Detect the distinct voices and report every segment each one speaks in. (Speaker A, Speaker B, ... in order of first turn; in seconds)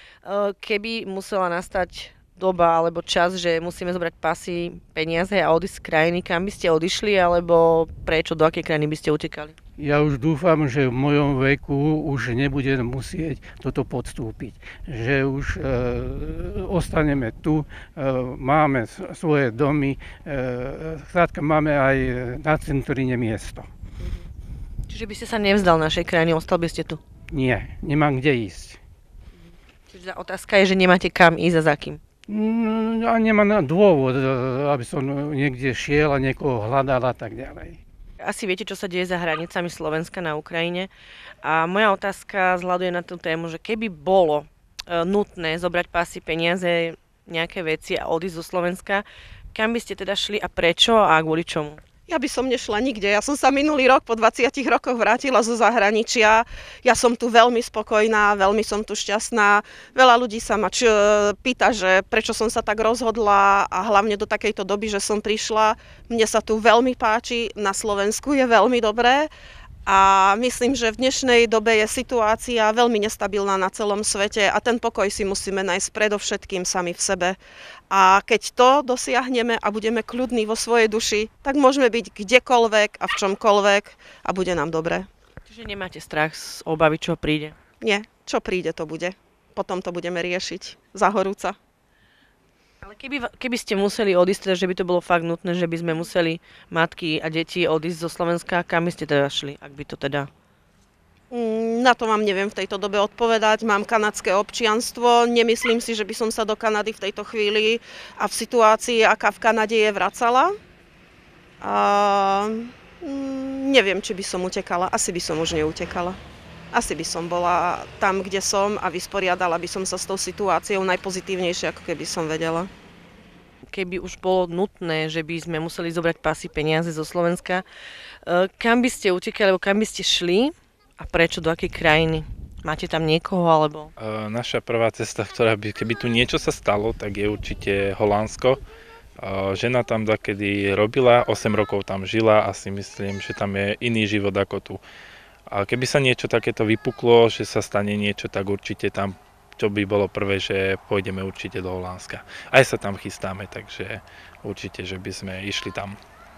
Speaker A: 0.2-9.5, 24.9-27.0, 29.9-32.0, 38.2-40.9, 41.4-51.8, 85.5-87.5, 92.8-100.3, 123.7-127.6, 128.2-133.9
Speaker B: 9.8-23.7, 27.3-28.8, 32.3-37.8
Speaker C: 52.1-69.3, 69.8-77.4, 77.9-85.1, 87.8-91.5, 101.3-110.5, 111.6-116.2, 116.7-122.7
Speaker D: 134.0-138.6, 139.2-144.8, 145.5-156.0